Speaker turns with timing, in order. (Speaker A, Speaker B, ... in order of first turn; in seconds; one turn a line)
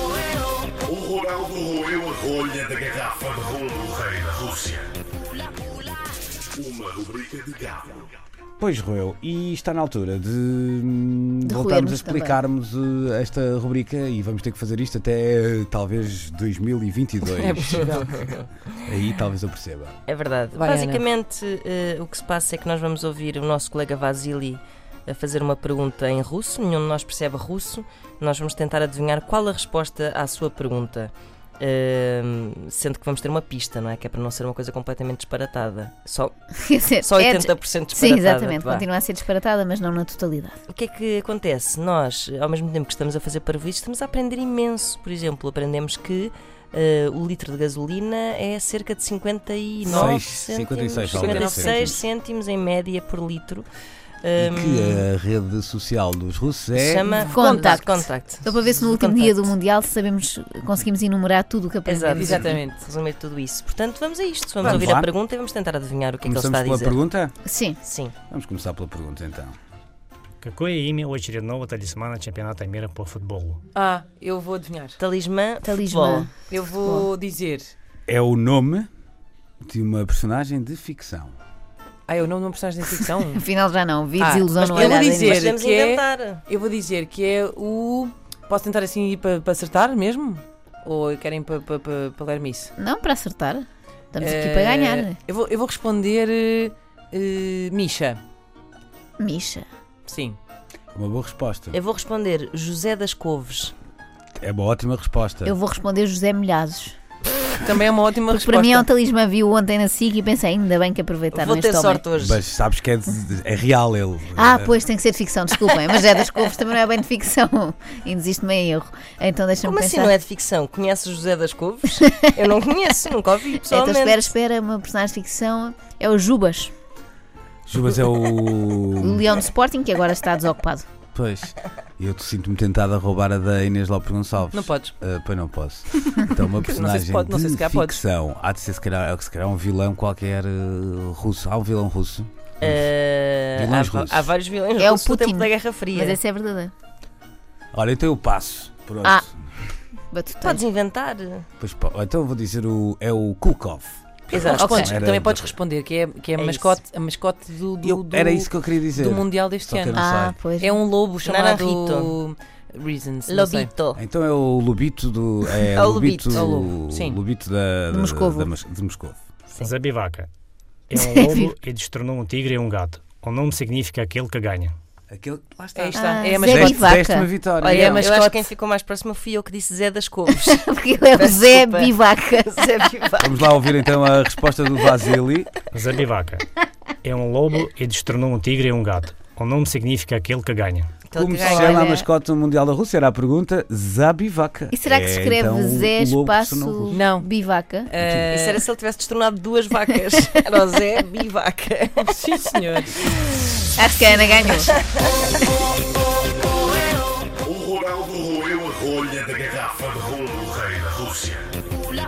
Speaker A: 0.9-4.8
Speaker A: 6.6-7.8
Speaker B: 8.6-18.1
Speaker C: 11.4-12.4
Speaker D: 17.3-18.3
Speaker E: 17.8-18.4
Speaker B: 18.8-20.0
Speaker E: 20.1-36.3
Speaker D: 20.5-21.0
Speaker C: 36.6-40.6
Speaker E: 37.0-38.9
Speaker E: 40.7-53.7
Speaker D: 49.9-50.2
Speaker B: 49.9-52.0
Speaker D: 51.1-52.0
Speaker E: 54.2-55.1
Speaker B: 54.4-57.1
Speaker E: 56.7-59.5
Speaker D: 57.1-57.8
Speaker C: 57.3-62.5
Speaker E: 61.9-67.0
Speaker D: 62.1-62.8
Speaker D: 64.6-64.9
Speaker B: 64.6-65.1
Speaker B: 66.2-67.3
Speaker C: 67.5-67.8
Speaker E: 67.8-68.1
Speaker B: 68.3-69.5
Speaker F: 70.4-73.6
Speaker D: 73.7-75.0
Speaker E: 75.0-76.3
Speaker C: 75.7-76.3
Speaker D: 76.5-77.7
Speaker B: 78.1-78.9
Speaker B: 79.6-81.4
Speaker D: 82.1-83.4
Speaker C: 83.3-85.4
Speaker D: 84.2-92.7
Speaker E: 84.6-86.4
Speaker C: 92.8-95.2
Speaker D: 94.2-98.2
Speaker C: 99.2-99.7
Speaker D: 100.1-100.4
Speaker B: 100.9-101.8
Speaker E: 101.7-103.7
Speaker B: 104.4-105.6
Speaker C: 105.5-107.0
Speaker D: 107.6-108.9
Speaker C: 108.3-112.0
Speaker E: 111.3-112.4
Speaker B: 112.2-114.8
Speaker C: 114.3-120.1
Speaker E: 119.6-124.3
Speaker C: 123.7-126.7
Speaker B: 127.7-129.3
Speaker C: 129.0-130.9
Speaker B: 131.2-142.9
Speaker D: 134.5-134.9
Speaker D: 136.6-138.0
Speaker E: 142.6-146.2
Speaker B: 143.6-144.3
Speaker C: 144.8-146.7
Speaker B: 147.7-149.3
Speaker C: 150.1-150.7
Speaker E: 150.4-151.5
Speaker B: 151.6-155.6
Speaker D: 154.3-160.0
Speaker E: 154.3-154.9
Speaker C: 154.5-154.9
Speaker E: 156.4-156.8
Speaker B: 157.8-160.4
Speaker C: 159.9-160.8
Speaker D: 160.6-163.7
Speaker E: 161.2-162.2
Speaker E: 163.3-164.0
Speaker B: 164.0-169.2
Speaker E: 165.7-166.7
Speaker D: 166.3-167.2
Speaker C: 167.9-168.5
Speaker F: 169.6-170.3
Speaker F: 170.9-174.7
Speaker C: 171.0-171.4
Speaker B: 175.1-178.0
Speaker D: 175.8-177.0
Speaker C: 175.9-177.3
Speaker E: 177.6-183.6
Speaker D: 177.7-178.5
Speaker C: 180.4-182.5
Speaker B: 183.2-185.6
Speaker F: 185.7-186.5
Speaker F: 187.0-190.9
Speaker E: 191.1-191.9
Speaker B: 191.1-197.0
Speaker C: 191.6-192.1
Speaker C: 194.7-197.9
Speaker D: 196.9-197.3
Speaker D: 197.9-198.7
Speaker B: 198.0-198.3
Speaker E: 198.3-202.2
Speaker D: 202.0-203.1
Speaker C: 203.8-204.7
Speaker E: 204.4-205.0
Speaker A: 207.4-211.5